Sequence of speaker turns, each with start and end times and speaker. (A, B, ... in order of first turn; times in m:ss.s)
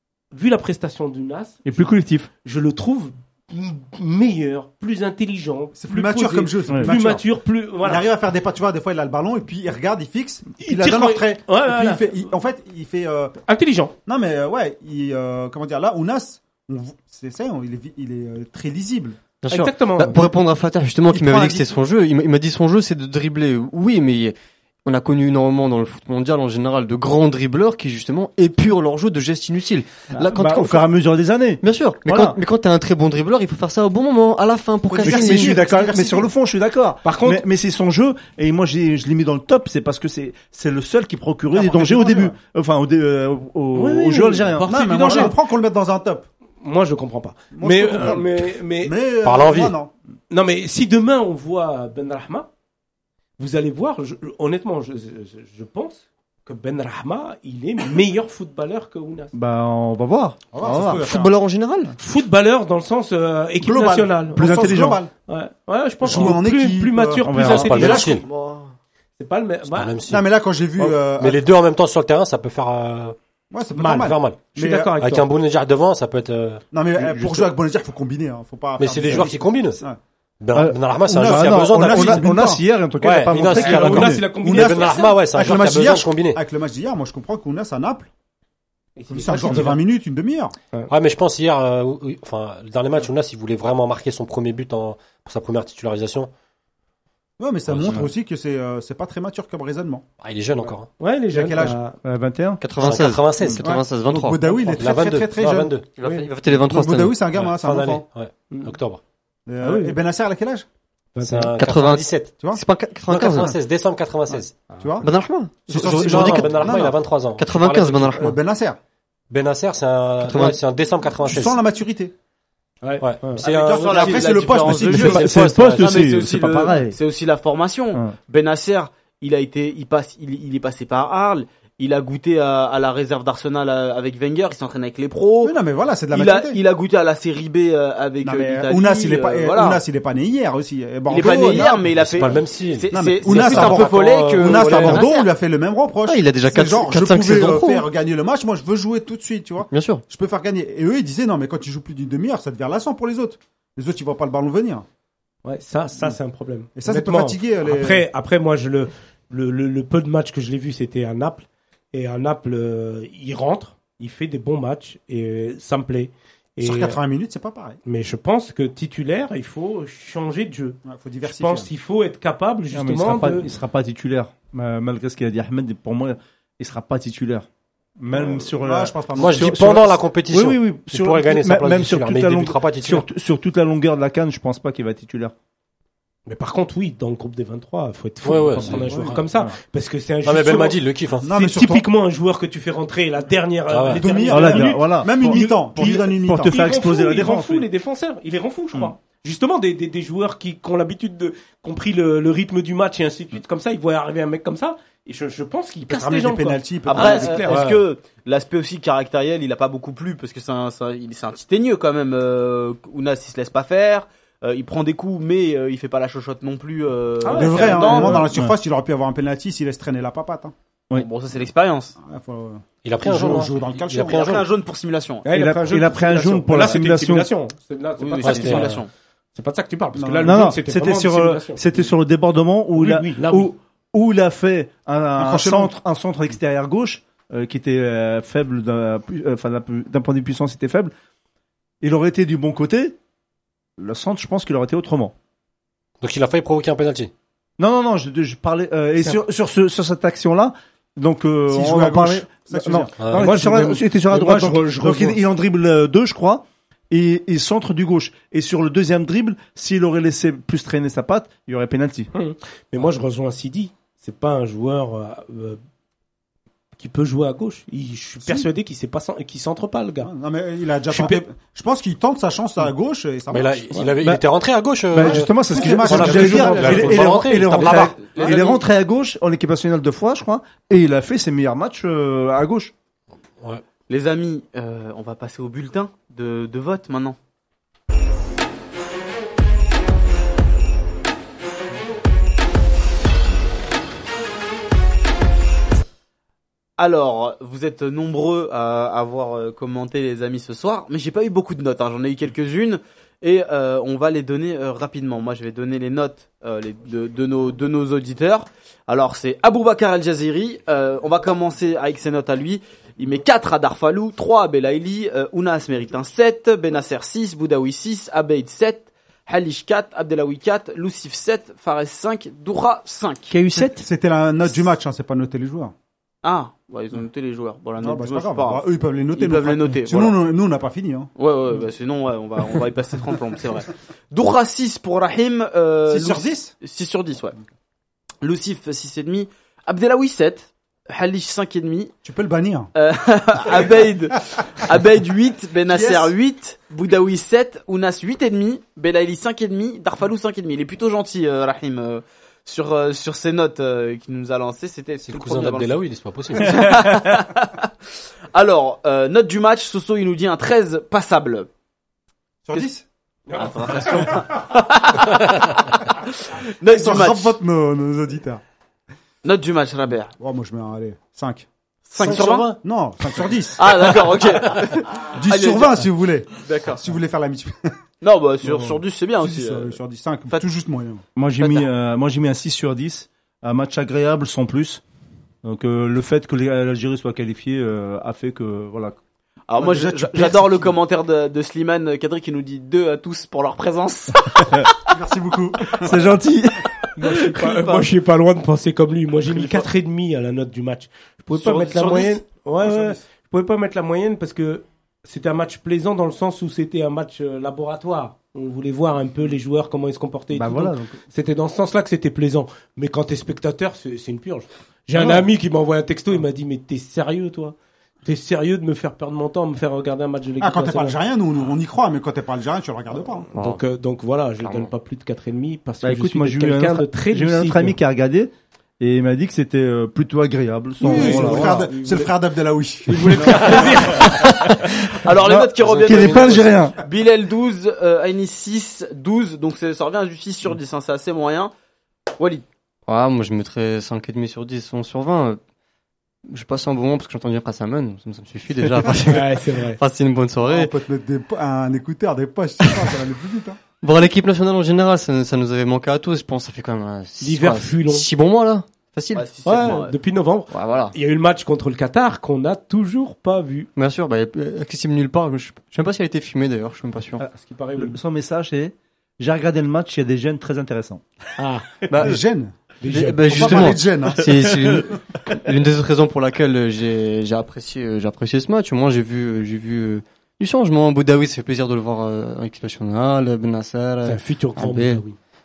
0:00.3-0:01.9 A
0:01.6-0:02.3 B
0:02.4-0:08.0 A
0:05.7-0:07.3 C
0:06.7-0:06.9 B
0:07.8-0:13.4 C
0:10.6-0:12.1 A
0:13.5-0:13.9 A
0:14.0-0:19.2 C
0:19.4-0:30.8 D
0:19.5-0:20.3 A
0:21.1-0:21.6 C
0:30.2-0:32.4 B
0:31.6-0:35.6 D
0:34.9-0:36.3 C
0:35.0-0:45.2 B
0:37.0-0:37.4 A
0:41.5-0:42.4 C
0:43.7-0:45.4 A
0:44.6-0:46.2 C
0:46.6-0:48.9 A
0:47.5-0:49.9 C
0:49.2-0:49.7 E
0:50.3-0:52.5 A
0:53.4-0:59.3 A
0:59.3-1:01.1 B
1:00.5-1:01.3 C
1:00.6-1:01.9 D
1:02.0-1:04.5 A
1:03.6-1:05.1 C
1:04.4-1:05.0 B
1:05.3-1:08.2 A
1:06.0-1:08.1 C
1:07.2-1:08.0 B
1:07.4-1:08.2 E
1:07.8-1:08.7 D
1:09.2-1:10.0 A
1:09.7-1:10.2 E
1:10.1-1:11.4 C
1:11.2-1:13.2 E
1:13.5-1:14.9 C
1:13.7-1:15.2 A
1:13.9-1:16.6 E
1:16.7-1:20.0 C
1:17.0-1:17.5 B
1:18.8-1:19.8 E
1:20.4-1:22.3 E
1:20.5-1:24.3 B
1:21.1-1:22.6 C
1:23.0-1:26.4 E
1:23.5-1:25.1 A
1:23.8-1:28.1 C
1:29.0-1:29.8 A
1:29.1-1:30.6 C
1:30.9-1:36.3 E
1:37.4-1:40.0 C
1:37.7-1:38.0 E
1:40.2-1:40.9 E
1:40.6-1:42.0 A
1:41.3-1:41.8 C
1:42.0-1:42.7 B
1:42.6-1:44.5 D
1:42.8-1:43.6 E
1:43.6-1:45.7 C
1:44.7-1:45.9 E
1:45.9-1:47.2 D
1:46.0-1:46.3 A
1:46.6-1:48.0 C
1:47.3-1:49.0 E
1:48.5-1:48.8 A
1:49.5-1:50.6 C
1:49.6-1:50.0 A
1:51.1-1:51.5 A
1:51.2-1:52.4 E
1:51.6-1:53.5 D
1:53.1-1:54.6 E
1:54.7-1:55.0 A
1:54.8-1:55.1 C
1:55.0-1:56.8 D
1:55.7-1:57.0 C
1:55.7-1:58.3 E
1:57.4-1:58.4 D
1:58.1-1:58.8 C
1:59.3-2:01.6 E
2:00.2-2:00.6 D
2:01.2-2:02.1 C
2:02.8-2:03.5 A
2:03.0-2:06.1 E
2:03.4-2:15.6 F
2:03.4-2:05.3 C
2:04.7-2:07.0 B
2:15.4-2:16.6 C
2:16.1-2:19.8 F
2:18.2-2:21.8 C
2:21.1-2:25.3 F
2:21.6-2:25.0 E
2:22.9-2:34.8 C
2:26.0-2:27.9 D
2:29.7-2:30.0 D
2:35.4-2:47.0 A
2:36.8-2:38.0 C
2:46.6-2:47.8 C
2:47.8-2:53.5 A
2:50.8-2:51.7 C
2:52.7-2:57.5 B
2:58.0-3:05.3 B
2:58.1-2:59.8 C
2:59.2-3:03.0 E
3:06.3-3:10.8 A
3:08.2-3:09.3 E
3:08.7-3:09.1 C
3:10.2-3:11.3 E
3:11.2-3:11.8 C
3:11.3-3:27.6 A
3:13.7-3:14.0 E
3:14.0-3:16.7 C
3:14.3-3:17.6 B
3:25.9-3:27.5 C
3:26.9-3:38.3 F
3:27.5-3:27.8 E
3:37.2-3:38.3 A
3:37.3-3:40.5 C
3:38.1-3:38.6 B
3:40.9-3:42.0 F
3:42.0-3:44.4 C
3:42.8-3:44.4 E
3:44.0-3:45.2 F
3:45.2-3:48.8 A
3:45.3-3:47.3 B
3:48.0-3:48.9 F
3:48.2-3:48.8 E
3:49.3-3:51.9 A
3:50.0-3:50.4 C
3:50.2-4:00.9 B
3:52.8-3:53.5 A
3:55.2-3:55.7 C
4:01.8-4:03.0 B
4:03.8-4:05.1 B
4:06.0-4:07.1 E
4:07.6-4:22.1 B
4:11.5-4:12.9 C
4:13.0-4:13.3 E
4:13.1-4:15.2 A
4:22.1-4:25.6 A
4:26.8-4:30.1 A
4:30.0-4:33.9 C
4:30.9-4:31.2 A
4:33.3-4:38.0 E
4:34.9-4:42.7 B
4:35.0-4:37.2 C
4:36.3-4:36.8 A
4:38.1-4:38.6 A
4:43.4-4:43.6 E
4:43.9-4:47.2 F
4:56.8-5:23.3 F
5:23.3-5:23.8 B
5:23.5-5:25.7 C
5:26.2-5:30.2 F
5:27.8-5:31.1 C
5:31.2-5:37.4 F
5:35.9-5:36.5 C
5:38.2-5:41.9 F
5:42.0-5:42.7 C
5:42.7-5:55.8 F
5:45.7-5:46.1 C
5:55.0-5:56.7 E
5:56.3-5:57.7 F
5:58.3-6:01.5 F
6:02.5-6:02.8 C
6:03.3-6:04.3 A
6:03.3-6:07.4 F
6:03.7-6:04.1 C
6:06.6-6:08.4 C
6:09.2-6:10.1 F
6:10.2-6:11.5 C
6:11.9-6:12.6 F
6:12.0-6:12.6 E
6:12.0-6:14.2 C
6:13.6-6:15.9 F
6:15.0-6:17.8 C
6:16.4-6:16.8 F
6:18.0-6:19.8 F
6:18.4-6:21.0 C
6:21.2-6:24.8 B
6:21.4-6:21.7 F
6:25.4-6:29.0 B
6:29.5-6:34.7 F
6:29.6-6:30.7 C
6:34.8-6:36.0 C
6:35.8-6:36.7 B
6:37.0-7:01.0 A
6:41.4-6:41.9 F
6:41.5-6:42.1 C
6:42.6-6:43.0 C
6:50.3-6:51.0 B
6:55.0-6:55.3 B
7:00.4-7:03.3 C
7:03.3-7:03.6 D
7:03.3-7:07.8 A
7:04.4-7:04.7 D
7:05.8-7:11.7 B
7:10.8-7:12.1 A
7:10.8-7:13.9 C
7:12.8-7:14.5 A
7:13.2-7:16.8 B
7:15.0-7:21.5 F
7:15.6-7:16.4 E
7:22.2-7:22.4 F
7:22.9-7:25.4 D
7:26.2-7:30.7 D
7:29.0-7:29.8 A
7:30.4-7:33.6 C
7:32.6-7:32.9 D
7:33.8-7:39.2 D
7:37.2-7:38.1 A
7:39.1-7:39.9 F
7:39.4-7:43.7 A
7:40.5-7:40.9 D
7:43.8-7:47.2 D
7:47.2-7:51.0 B
7:47.3-7:48.0 A
7:51.4-7:51.7 A
7:51.9-7:52.2 D
7:52.0-7:52.6 C
7:52.8-7:53.8 A
7:52.9-8:05.0 D
7:53.2-7:54.5 C
8:04.0-8:05.2 A